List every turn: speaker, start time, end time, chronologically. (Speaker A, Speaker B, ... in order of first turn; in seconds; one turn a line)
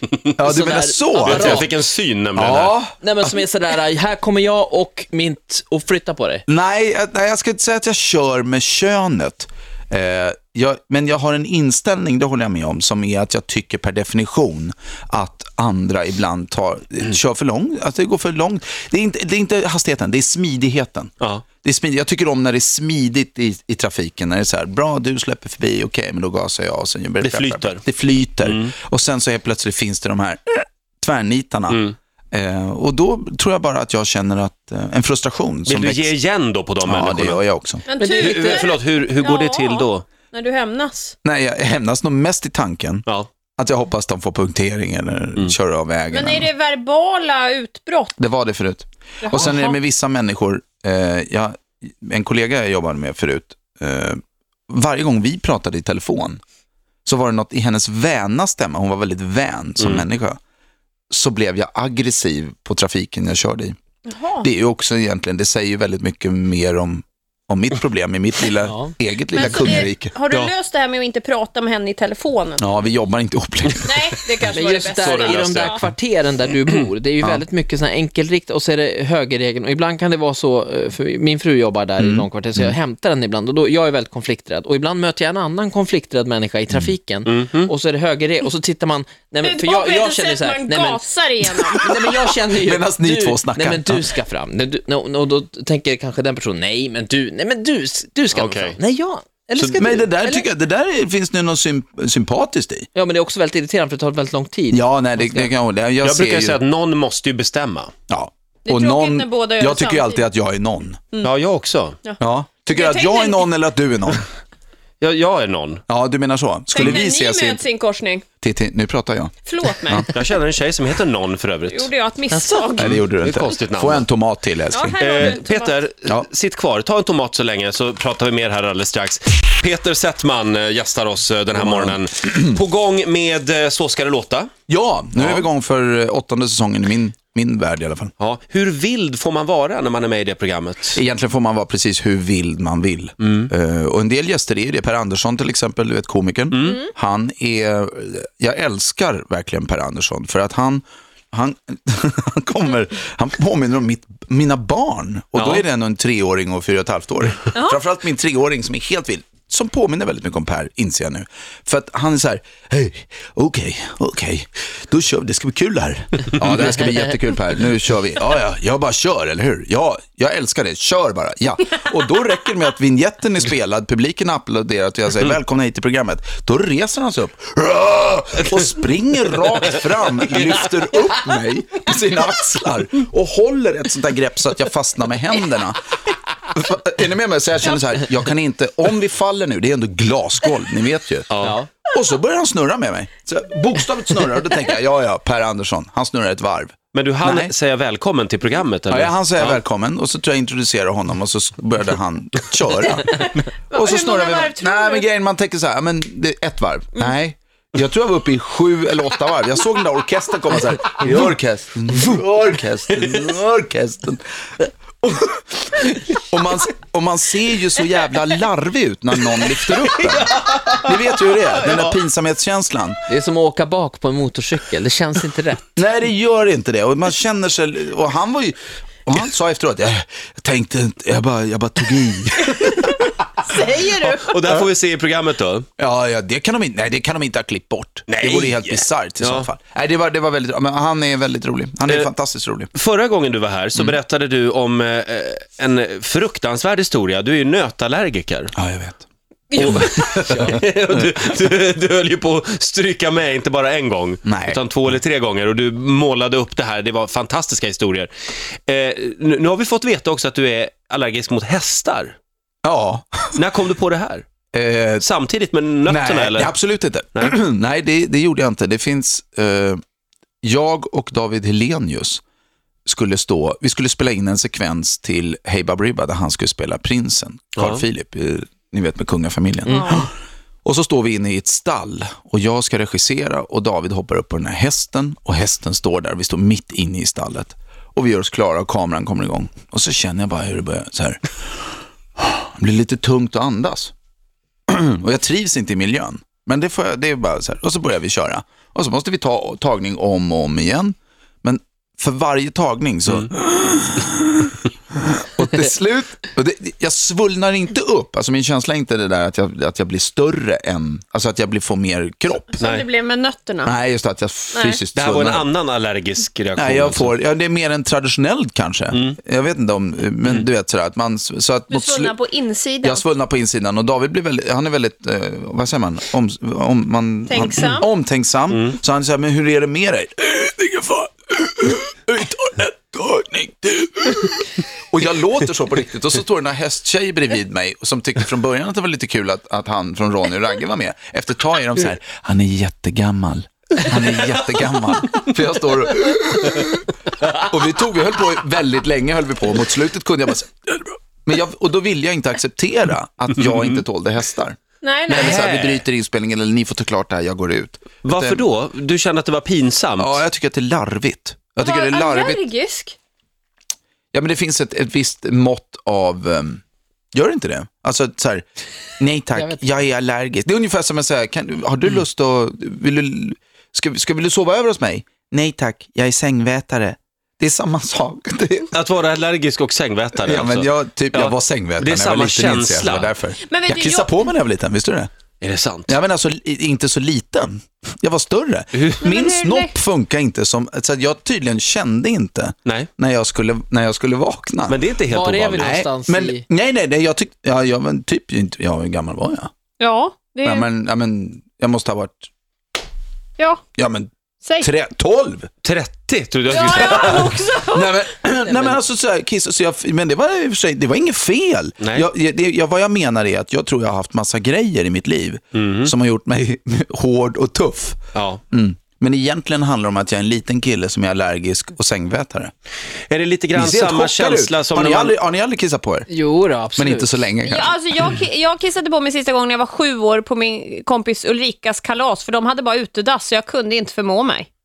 Speaker A: 0.4-1.7
Speaker B: 0.4-1.7
Speaker C: 1.2-2.8
Speaker A: 2.4-3.0
Speaker B: 3.0-6.4
Speaker A: 6.5-21.1
Speaker A: 21.6-36.1
Speaker C: 27.2-27.8
Speaker C: 28.4-28.7
Speaker C: 31.7-32.0
Speaker C: 35.7-37.4
Speaker A: 36.8-37.9
Speaker D: 37.9-41.2
Speaker C: 38.0-40.0
Speaker A: 41.2-43.1
Speaker A: 43.6-46.5
Speaker D: 46.1-48.2
Speaker A: 48.2-56.4
Speaker D: 49.2-49.8
Speaker A: 57.0-60.4
Speaker A: 61.1-63.8
Speaker D: 64.1-64.5
Speaker A: 64.4-70.2
Speaker B: 68.7-68.9
Speaker D: 69.3-72.7
Speaker A: 72.6-74.3
Speaker D: 73.8-75.9
Speaker B: 74.5-100.5
Speaker C: 74.9-75.8
Speaker A: 82.0-82.7
Speaker C: 87.3-87.7
Speaker D: 89.4-91.9
Speaker A: 92.0-94.1
Speaker C: 98.3-98.8
Speaker A: 99.8-102.9
Speaker B: 103.0-105.5
Speaker A: 104.7-106.6
Speaker C: 106.0-107.9
Speaker A: 108.1-111.0
Speaker D: 108.7-110.3
Speaker C: 111.2-112.0
Speaker D: 112.0-113.5
Speaker A: 112.2-114.2
Speaker C: 115.0-115.8
Speaker A: 115.9-117.7
Speaker D: 116.7-118.3
Speaker A: 118.4-120.1
Speaker D: 119.5-120.1
Speaker C: 120.1-121.9
Speaker D: 121.7-123.1
Speaker C: 122.8-124.1
Speaker A: 122.8-125.4
Speaker D: 124.7-125.8
Speaker C: 125.0-134.5
Speaker A: 131.5-132.6
Speaker A: 134.7-138.1
Speaker C: 135.2-135.5
Speaker C: 138.2-141.0
Speaker A: 140.9-185.9
Speaker C: 143.2-143.5
Speaker C: 146.5-146.9
Speaker C: 155.3-155.6
Speaker D: 157.5-157.8
Speaker A: 186.5-197.5
Speaker C: 191.3-191.6
Speaker B: 191.4-191.7
Speaker C: 196.9-199.6
Speaker A: 198.9-214.2
Speaker D: 203.7-205.1
Speaker A: 215.0-223.0
Speaker C: 220.1-220.9
Speaker C: 221.6-221.9
Speaker B: 223.1-225.8
Speaker A: 225.8-233.1
Speaker D: 233.4-234.4
Speaker C: 234.0-235.7
Speaker A: 235.8-242.7
Speaker C: 238.1-239.5
Speaker C: 242.7-248.5
Speaker A: 248.6-249.1
Speaker C: 249.6-258.1
Speaker A: 249.6-251.2
Speaker A: 254.3-254.6
Speaker C: 258.7-262.2
Speaker A: 262.6-263.4
Speaker C: 263.4-264.3
Speaker A: 264.5-265.1
Speaker C: 265.0-266.5
Speaker A: 265.9-269.8
Speaker A: 270.4-272.2
Speaker A: 272.9-280.1
Speaker C: 277.6-277.8
Speaker B: 279.7-280.1
Speaker D: 279.7-280.0
Speaker A: 280.6-293.9
Speaker A: 294.7-312.6
Speaker D: 312.6-313.7
Speaker C: 312.6-312.9
Speaker A: 313.6-315.5
Speaker D: 314.5-314.8
Speaker C: 314.9-317.1
Speaker A: 316.6-322.2
Speaker C: 318.9-319.2
Speaker D: 321.7-323.1
Speaker A: 322.8-358.4
Speaker D: 327.3-327.9
Speaker C: 328.5-328.8
Speaker D: 354.8-355.4
Speaker C: 355.1-355.8
Speaker C: 358.0-360.2
Speaker A: 360.0-362.4
Speaker D: 361.6-363.0
Speaker A: 364.1-366.6
Speaker A: 367.1-368.4
Speaker A: 369.0-378.7
Speaker B: 369.4-369.6
Speaker C: 378.7-383.1
Speaker A: 380.2-385.1
Speaker D: 383.4-384.2
Speaker C: 385.4-385.9
Speaker A: 385.9-394.8
Speaker D: 389.0-389.8
Speaker C: 394.7-395.8
Speaker B: 395.1-396.4
Speaker A: 395.6-399.5
Speaker D: 399.8-400.7
Speaker A: 400.4-402.3
Speaker D: 403.4-403.6
Speaker A: 403.8-405.5
Speaker D: 404.4-404.7
Speaker C: 405.6-407.4
Speaker D: 406.5-408.0
Speaker A: 406.5-422.5
Speaker C: 411.8-412.1
Speaker C: 415.5-415.9
Speaker C: 418.1-418.4
Speaker C: 423.1-425.2
Speaker A: 423.5-426.1
Speaker B: 426.1-427.2
Speaker A: 426.8-427.9
Speaker D: 427.4-434.5